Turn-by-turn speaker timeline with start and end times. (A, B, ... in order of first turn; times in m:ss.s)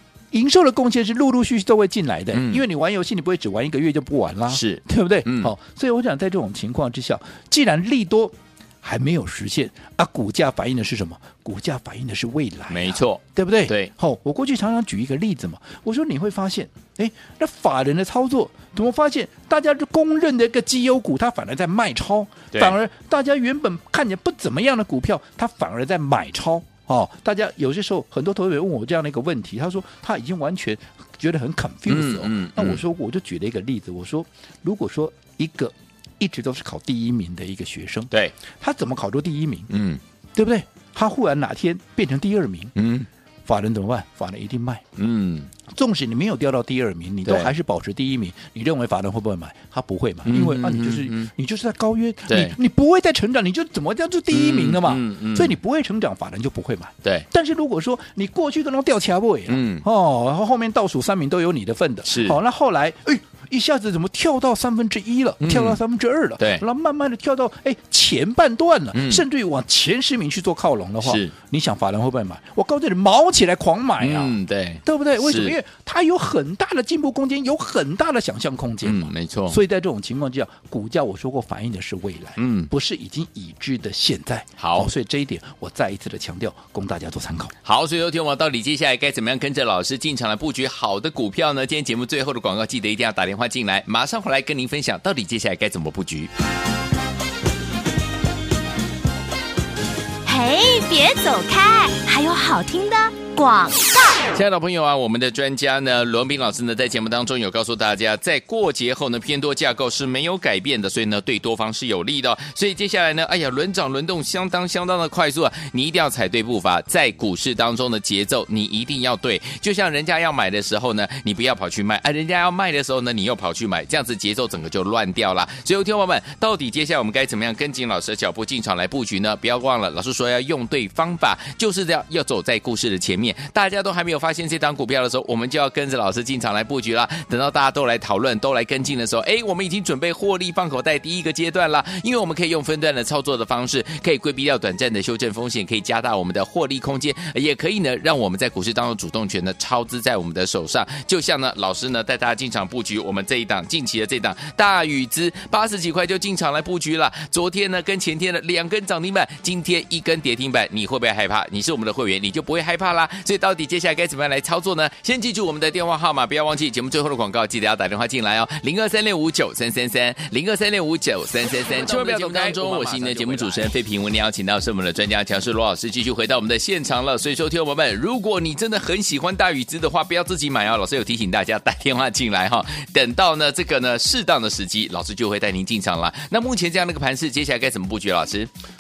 0:00.3-0:39.7 A
0:02.3-0:02.6 B
0:04.5-0:05.5 B
0:12.7-0:13.9 B
0:31.9-0:32.8 B
0:39.7-0:40.0 B
0:40.4-0:42.8 A
0:42.8-0:43.1 B
0:43.4-0:44.9 A
0:45.0-0:45.5 B
0:45.7-1:27.5 A
0:47.2-0:47.5 B
0:50.2-0:51.3 B
0:52.3-0:52.6 B
0:54.3-0:55.6 B
0:59.5-0:59.9 B
1:02.0-1:02.4 B
1:05.4-1:05.8 B
1:06.4-1:06.6 B
1:08.9-1:09.2 B
1:11.0-1:11.3 B
1:14.0-1:15.6 B
1:18.8-1:19.6 B
1:22.4-1:22.7 B
1:24.6-1:24.9 B
1:27.6-1:36.3 B
1:40.2-1:44.1 C
1:44.3-3:08.5 B
2:52.6-2:53.3 A